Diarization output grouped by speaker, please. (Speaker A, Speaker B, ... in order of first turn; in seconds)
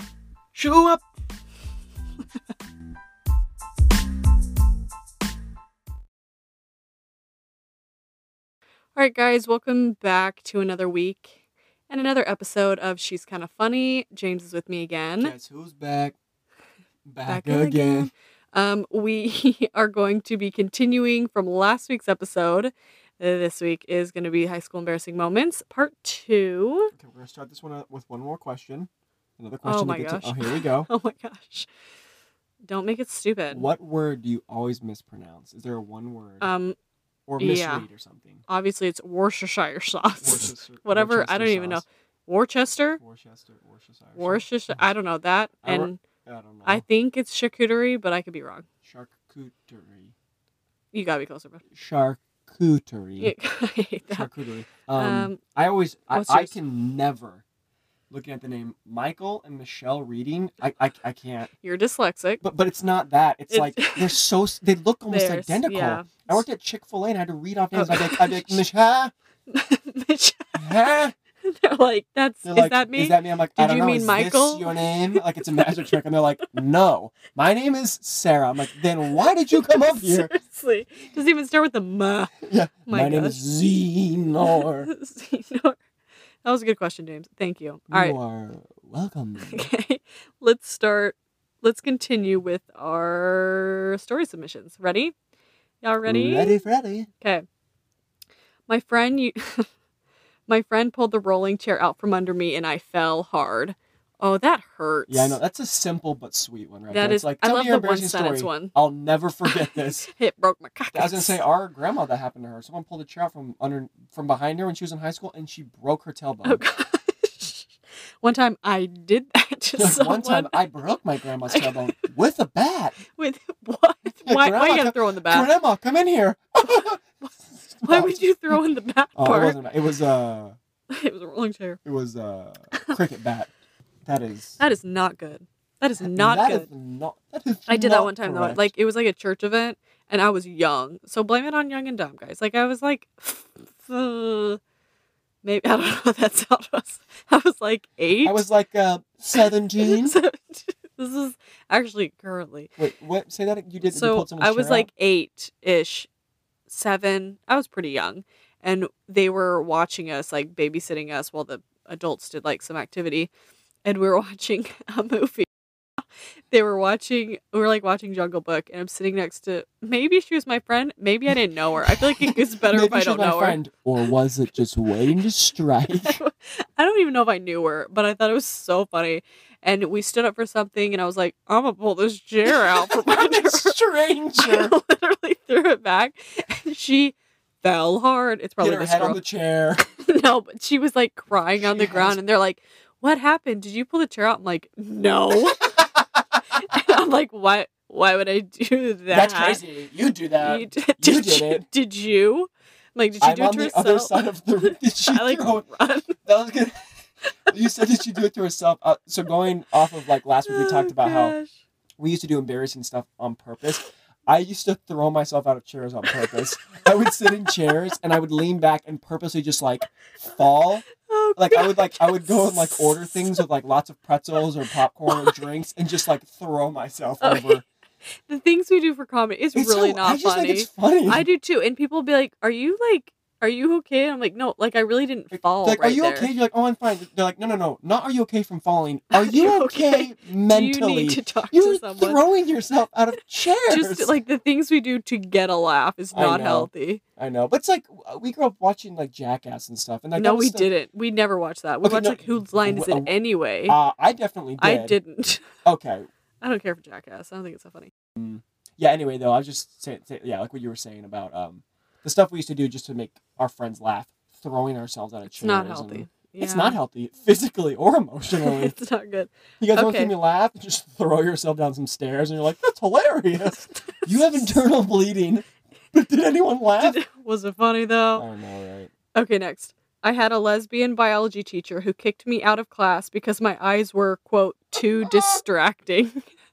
Speaker A: 0.5-1.0, 15.2-16.1, 17.1-18.1, 26.9-30.9, 33.5-36.5, 37.3-38.4, 40.2-41.8, 43.0-44.4, 45.6-46.8, 48.8-50.1, 51.7-53.3, 54.1-57.4, 58.1-61.5, 62.4-69.1, 70.5-71.1, 72.4-80.3, 82.4-84.9, 87.9-89.7, 96.0-97.1, 105.1-110.1, 110.9-116.6, 119.8-123.0, 124.2-128.6, 129.2-130.6, 131.8-133.5, 134.1-134.6, 136.0-138.7, 148.2-150.2, 152.8-154.9, 171.8-176.2, 182.4-184.7, 188.6-189.8, 191.6-192.2, 195.6-196.0, 199.1-201.7, 203.2-205.6, 206.2-206.8, 207.5-211.3, 212.0-227.6, 229.5-231.2, 235.6-244.1, 246.1-250.7, 251.8-253.1, 253.7-255.0, 255.6-256.1, 258.1-268.7, 269.6-277.0, 278.1-278.9, 285.0-285.4
Speaker B: 8.9-11.3, 11.9-15.3, 17.2-26.9, 29.6-31.7, 32.7-33.7, 36.4-36.8, 37.4-37.9, 38.5-43.0, 44.2-46.0, 46.6-48.6, 50.9-51.6, 53.2-54.3, 54.9-55.4, 56.1-56.5, 61.6-62.4, 63.5-64.2, 65.1-66.3, 67.7-68.6, 69.5-70.8, 71.5-75.9, 79.1-83.4, 84.4-85.8, 86.4-88.2, 89.4-95.1, 95.8-96.6, 98.7-99.7, 100.5-105.4, 106.9-108.7, 109.5-111.4, 116.4-117.7, 118.2-120.6, 121.5-121.9, 123.2-125.5, 126.7-127.3, 127.8-129.6, 130.9-131.8, 134.6-136.7, 137.7-144.6, 145.4-148.5, 149.3-152.7, 153.8-156.1, 156.7-163.3, 163.8-165.5, 166.5-173.6, 176.0-183.8, 184.4-189.2, 190.0-195.6, 196.7-199.6, 200.4-206.2, 210.4-211.5, 221.0-223.3, 225.1-225.4, 227.2-227.6, 228.3-236.3, 239.1-242.2, 243.7-247.0, 250.2-253.8, 254.6-255.5, 256.4-257.9, 265.3-266.8, 268.3-270.1, 274.0-274.6, 276.8-278.2, 279.1-286.2